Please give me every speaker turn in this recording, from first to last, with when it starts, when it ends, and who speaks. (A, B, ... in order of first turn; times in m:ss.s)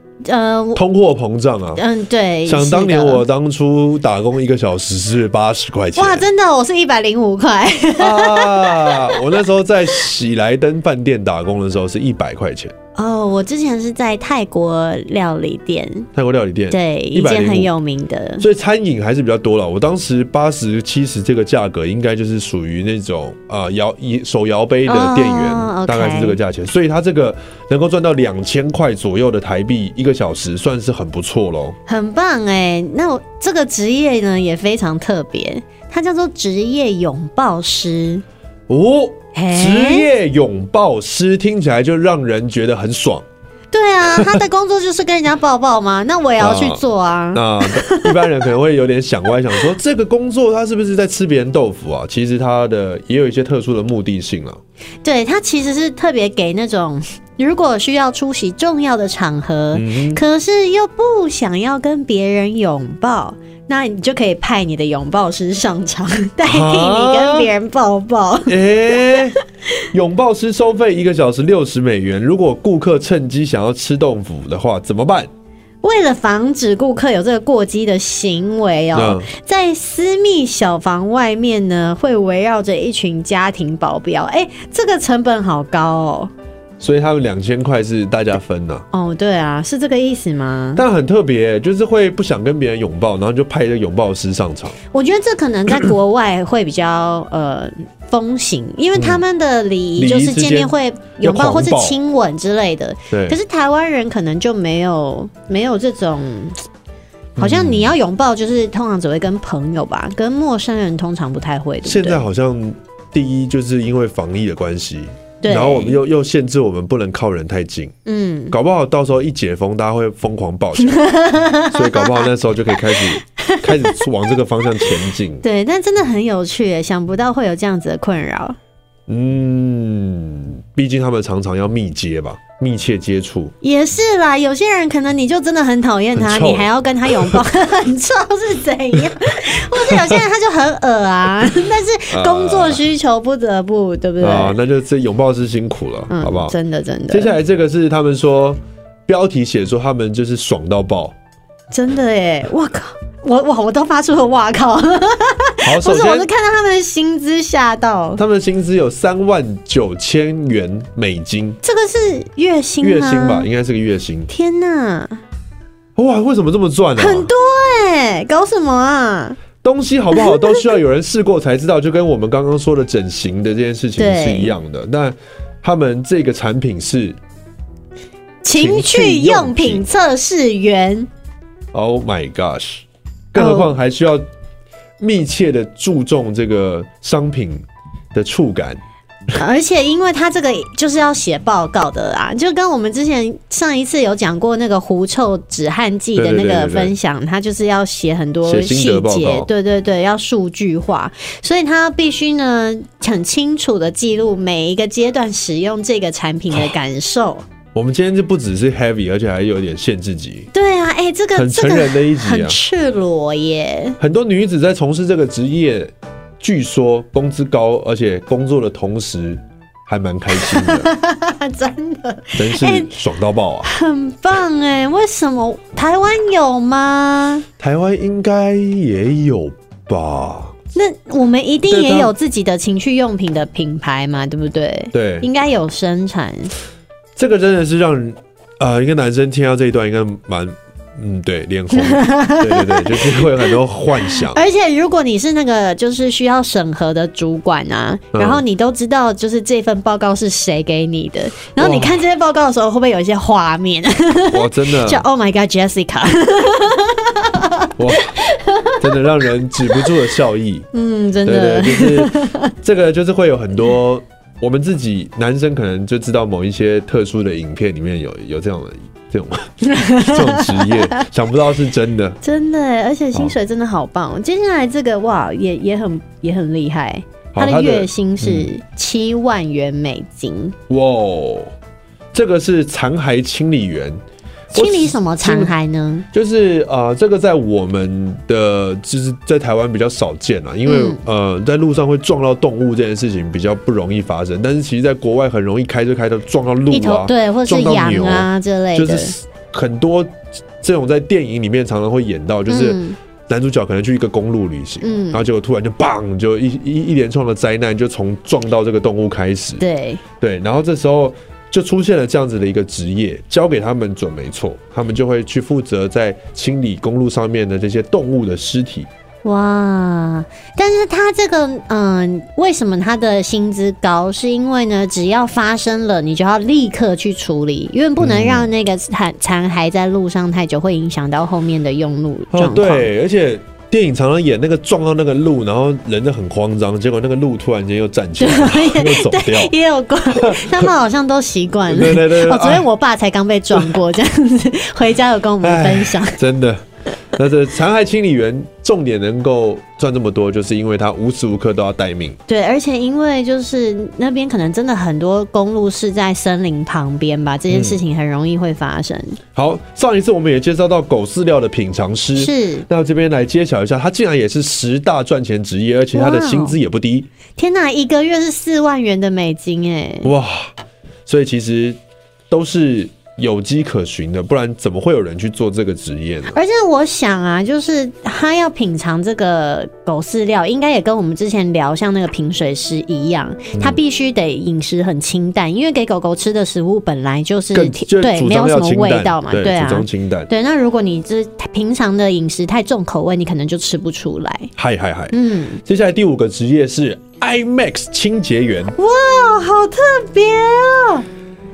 0:00.2-0:00.8 A
0:00.8-0:01.8 B
0:01.8-0:03.2 A
0:02.4-0:06.2 B
0:05.9-0:09.2 A
0:08.0-0:12.8 B
0:13.0-0:16.1 A
0:16.2-0:17.7 B
0:16.7-0:18.4 A
0:18.4-0:31.8 B
0:24.8-0:26.4 A
0:31.9-0:38.2 A
0:38.7-0:43.2 B
0:39.3-0:40.1 A
0:43.7-0:48.3 A
0:46.4-0:46.8 B
0:47.3-0:54.6 B
0:55.0-1:09.2 A
0:59.7-1:00.2 B
1:06.4-1:07.5 B
1:08.5-1:09.4 B
1:09.9-1:15.3 B
1:15.8-1:26.3 A
1:18.9-1:19.3 B
1:26.8-1:28.8 B
1:28.9-1:30.8 A
1:30.8-1:34.8 B
1:34.9-1:46.6 A
1:40.0-1:42.0 B
1:43.1-1:43.4 B
1:47.4-1:47.9 B
1:47.4-1:52.2 A
1:51.8-1:57.9 B
1:55.4-1:56.0 A
1:58.1-1:58.5 A
1:58.5-2:01.0 B
2:00.8-2:04.0 A
2:01.6-2:05.4 B
2:05.4-2:08.6 A
2:09.1-2:13.5 B
2:13.6-2:24.6 A
2:16.2-2:17.4 B
2:22.1-2:22.8 B
2:24.2-2:26.5 B
2:26.1-2:27.3 A
2:27.1-2:31.1 B
2:31.7-2:38.2 A
2:35.6-2:36.3 B
2:38.2-2:41.6 B
2:41.6-2:43.5 A
2:42.8-2:44.3 B
2:44.3-2:45.2 A
2:46.0-2:47.3 B
2:47.0-2:49.4 A
2:49.6-2:57.2 B
2:50.1-2:50.8 A
2:54.0-2:54.5 A
2:58.4-3:01.1 A
2:58.5-2:59.8 B
3:01.7-3:04.3 B
3:03.3-3:03.8 A
3:05.0-3:08.8 B
3:09.4-3:27.4 A
3:16.2-3:16.9 B
3:18.4-3:19.5 B
3:27.7-3:30.5 B
3:30.5-3:34.0 A
3:31.3-3:32.6 B
3:34.0-3:40.9 B
3:40.3-3:42.9 A
3:42.4-3:43.7 B
3:43.6-3:47.4 A
3:47.6-3:50.5 B
3:50.7-3:56.5 A
3:51.7-3:52.1 B
3:54.9-3:55.3 B
3:57.2-4:04.4 B
4:01.7-4:03.6 A
4:04.3-4:19.0 A
4:08.1-4:08.4 B
4:11.6-4:12.0 B
4:14.3-4:15.0 B
4:17.8-4:18.2 B
4:18.8-4:20.7 B
4:20.7-4:22.5 A
4:21.2-4:32.2 B
4:29.7-4:30.9 A
4:32.2-4:40.6 A
4:37.3-4:38.5 B
4:40.7-4:41.5 B
4:42.1-4:44.0 B
4:44.5-4:45.6 B
4:44.5-4:46.1 A
4:46.1-5:09.6 B
4:50.6-4:51.0 A
4:56.7-4:59.1 A
5:02.5-5:03.0 A
5:04.8-5:05.2 A
5:09.6-5:10.0 A
5:10.2-5:18.9 B
5:19.2-5:32.9 A
5:28.0-5:28.5 B
5:32.3-5:39.5 B
5:38.2-5:46.2 A
5:40.1-5:40.7 B
5:41.7-5:42.7 B
5:45.4-5:52.2 B
5:52.3-5:59.2 A
5:57.5-5:57.8 B
5:59.3-6:07.1 B
6:02.2-6:02.7 A
6:05.9-6:06.6 A
6:07.4-6:10.1 A
6:10.0-6:10.5 B
6:11.1-6:11.8 B
6:12.3-6:16.4 B
6:16.3-6:34.5 A
6:23.6-6:23.8 B
6:27.5-6:30.3 B
6:34.6-6:38.8 B
6:35.1-6:35.6 A
6:38.8-6:41.1 A